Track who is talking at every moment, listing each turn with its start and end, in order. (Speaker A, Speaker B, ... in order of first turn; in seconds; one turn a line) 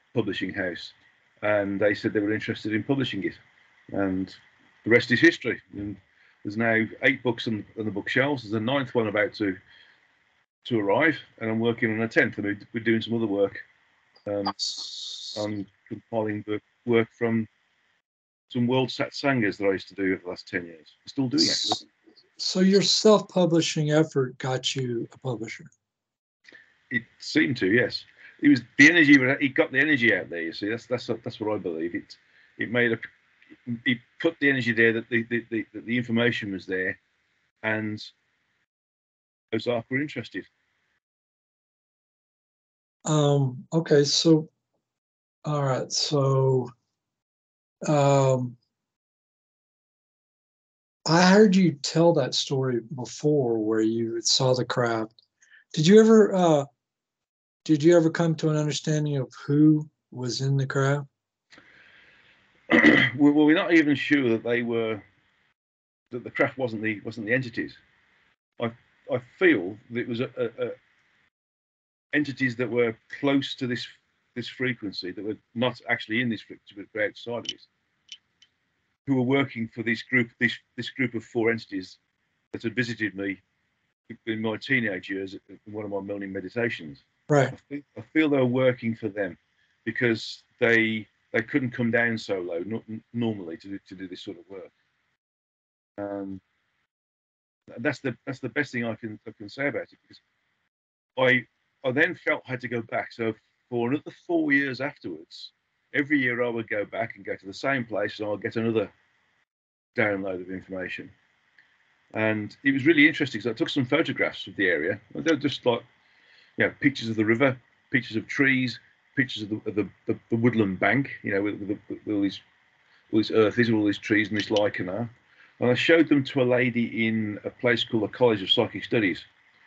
Speaker A: 0.1-3.4
Speaker A: 3.9-9.6
Speaker A: 10.6-13.6
Speaker A: 14.2-17.5
Speaker B: 14.6-15.3
Speaker A: 18.5-21.8
Speaker B: 22.4-25.7
Speaker A: 26.9-33.0
Speaker A: 33.6-37.0
Speaker A: 37.6-38.1
Speaker A: 39.5-40.5
Speaker B: 43.0-44.5
Speaker B: 45.4-46.7
Speaker B: 47.8-48.5
Speaker B: 51.0-55.1
Speaker B: 55.7-56.7
Speaker B: 57.6-61.1
Speaker A: 62.7-65.0
Speaker A: 66.1-67.8
Speaker A: 68.6-70.8
Speaker A: 72.1-77.7
Speaker A: 79.0-82.0
Speaker A: 82.5-83.4
Speaker A: 84.1-94.7
Speaker B: 87.3-87.5
Speaker A: 96.0-96.4
Speaker A: 97.7-100.2
Speaker A: 101.2-108.9
Speaker A: 109.9-111.1
Speaker A: 112.1-115.8
Speaker A: 116.6-122.4
Speaker A: 123.1-129.3